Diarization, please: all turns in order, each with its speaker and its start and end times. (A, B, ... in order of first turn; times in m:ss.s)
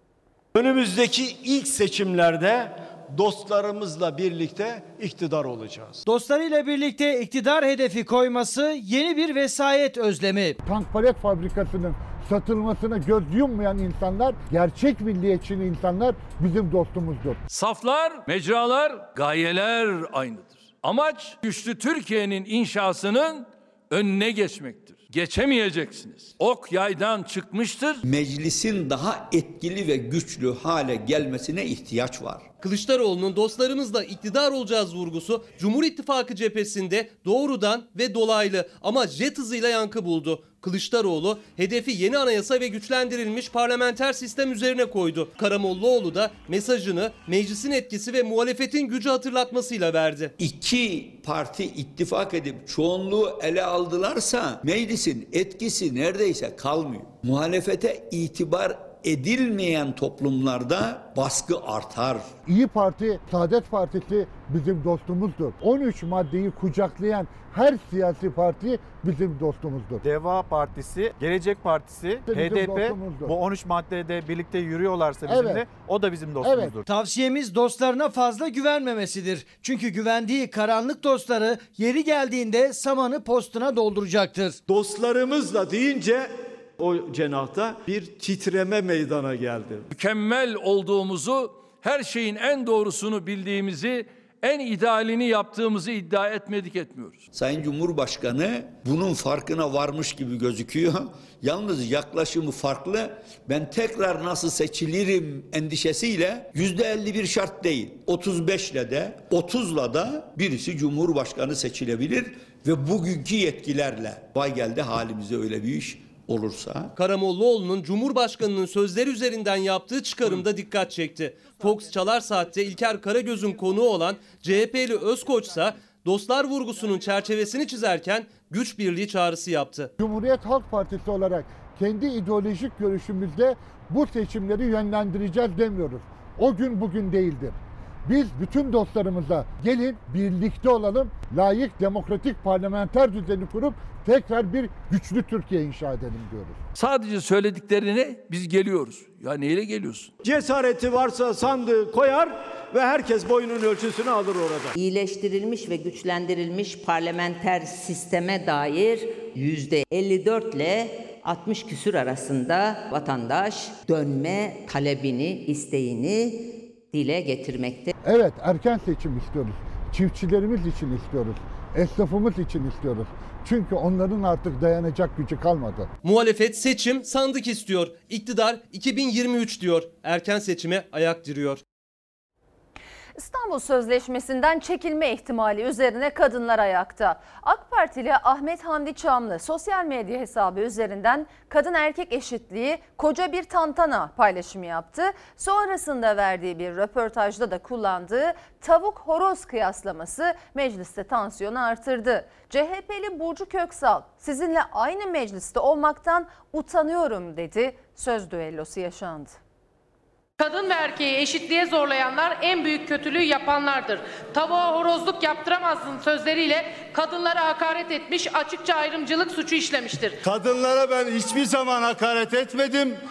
0:00.5-0:06.0 A
0:06.1-0:10.6 B
0:10.6-0:17.4 C
0:17.5-0:28.0 D
0:28.0-0:32.4 E
0:32.6-0:50.3 F
0:50.4-1:02.3 E
1:02.4-1:10.0 C
1:10.0-1:16.9 G
1:12.3-1:13.4 C
1:15.3-1:15.6 C
1:16.4-1:16.7 C
1:16.9-1:24.6 B
1:24.7-1:29.9 A
1:29.9-1:37.2 D
1:37.3-1:56.9 E
1:57.0-2:09.9 F
2:10.0-2:26.6 C
2:26.7-2:30.1 D
2:30.2-2:34.7 A
2:34.7-2:47.9 H
2:48.0-2:55.9 C
2:56.0-3:01.6 F
3:03.2-3:29.4 I
3:30.4-3:40.2 J